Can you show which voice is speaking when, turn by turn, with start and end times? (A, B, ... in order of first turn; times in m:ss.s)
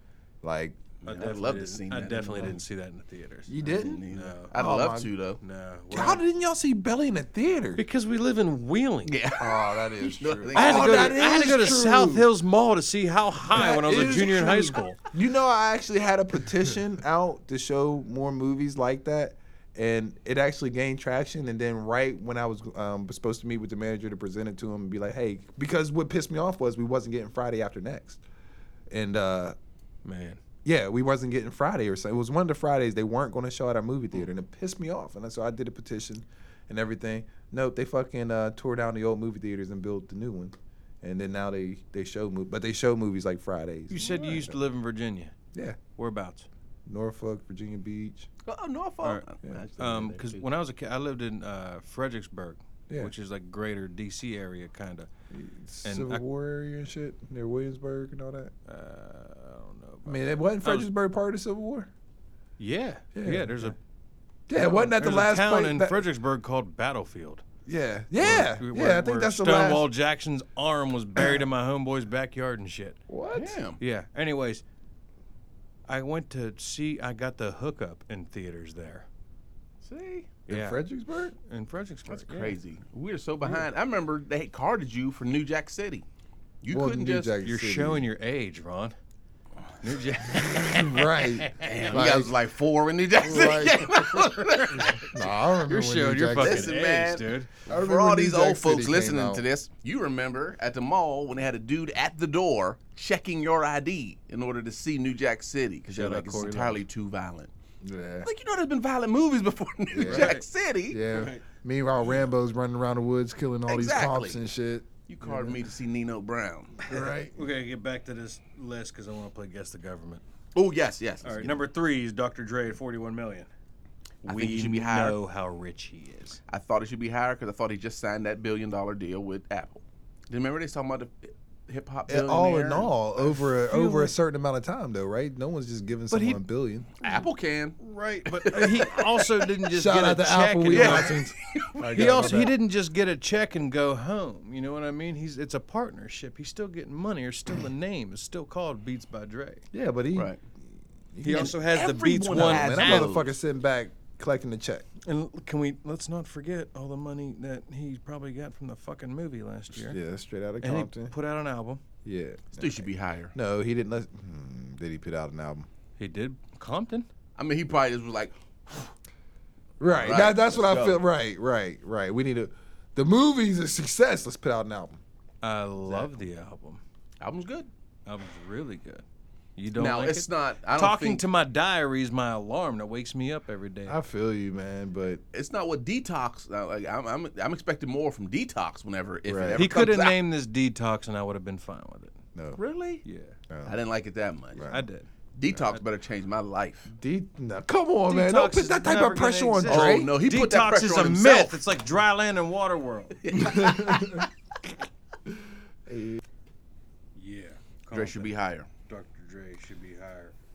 0:00.4-0:00.8 A
0:01.0-0:02.6 B
0:01.0-0:04.5 C
0:03.5-0:05.1 A
0:03.6-0:05.4 B
0:05.4-0:06.2 C
0:05.9-0:07.8 A
0:07.8-0:09.1 C
0:09.0-0:11.3 B
0:09.4-0:12.3 A
0:10.5-0:15.0 C
0:13.5-0:28.2 A
0:28.9-0:29.6 A
0:30.0-0:30.4 C
0:30.6-0:44.6 A
0:43.9-0:45.4 C
0:44.0-0:44.2 B
0:45.5-0:45.8 A
0:46.0-0:46.5 C
0:46.8-0:48.3 A
0:48.4-0:50.4 B
0:49.8-0:55.1 C
0:55.3-0:58.5 A
0:55.8-0:56.2 C
0:58.6-1:00.9 C
1:00.0-1:01.9 A
1:02.6-1:03.8 C
1:03.1-1:03.8 A
1:04.5-1:06.0 A
1:04.5-1:07.4 C
1:07.6-1:09.9 A
1:08.2-1:13.0 C
1:11.2-1:11.4 A
1:13.1-1:13.6 A
1:13.3-1:13.8 B
1:13.8-1:14.6 C
1:15.9-1:19.0 C
1:19.8-1:20.3 B
1:20.5-1:21.3 A
1:20.5-1:20.8 C
1:21.4-1:22.6 C
1:22.1-1:26.0 B
1:26.6-1:27.3 B
1:26.7-1:28.0 A
1:27.4-1:28.9 C
1:29.8-1:32.0 C
1:30.5-1:32.3 A
1:31.6-1:35.1 B
1:33.2-1:34.0 A
1:34.4-1:35.1 C
1:35.1-1:36.7 A
1:35.6-1:37.5 C
1:36.4-1:47.5 B
1:37.7-1:39.4 A
1:45.9-1:46.8 C
1:47.8-1:48.3 A
1:48.2-1:51.0 B
1:49.9-1:50.4 A
1:50.0-1:50.4 C
1:50.9-1:55.6 A
1:51.1-1:51.4 C
1:53.7-1:54.4 B
1:55.1-1:56.9 B
1:56.9-1:57.4 A
1:57.3-2:00.2 C
2:00.5-2:01.6 B
2:01.2-2:03.5 C
2:04.2-2:06.4 C
2:04.2-2:05.2 B
2:06.5-2:12.9 B
2:12.1-2:17.0 A
2:13.2-2:14.1 C
2:16.1-2:16.4 C
2:17.0-2:19.4 B
2:17.8-2:21.2 C
2:19.7-2:22.5 A
2:20.7-2:22.4 B
2:21.9-2:29.6 C
2:29.7-2:30.4 A
2:30.1-2:30.4 B
2:31.1-2:31.5 A
2:31.2-2:33.2 C
2:31.3-2:33.3 B
2:32.3-2:34.8 A
2:35.0-2:40.0 C
2:39.7-2:41.1 A
2:40.6-2:41.8 C
2:42.0-2:45.7 A
2:42.5-2:43.3 B
2:46.0-2:47.1 C
2:47.4-2:48.9 B
2:49.8-2:55.0 A
2:49.9-2:51.0 B
2:55.4-2:56.8 C
2:57.2-2:57.7 B
2:58.0-2:59.0 C
2:59.6-3:04.0 C
2:59.7-3:01.2 B
3:03.9-3:05.2 A
3:05.3-3:10.2 B
3:09.2-3:09.7 A
3:09.5-3:12.2 C
3:12.3-3:12.6 A
3:12.6-3:13.0 B
3:13.0-3:13.4 C
3:13.5-3:13.8 A
3:13.6-3:14.7 B
3:14.5-3:14.8 A
3:14.7-3:15.8 C
3:15.4-3:16.9 B
3:16.9-3:20.1 A
3:18.1-3:23.2 C
3:19.7-3:21.6 B
3:23.2-3:24.2 B
3:23.3-3:24.3 A
3:25.3-3:26.2 A
3:27.1-3:28.4 C
3:27.9-3:28.7 B
3:28.9-3:30.3 C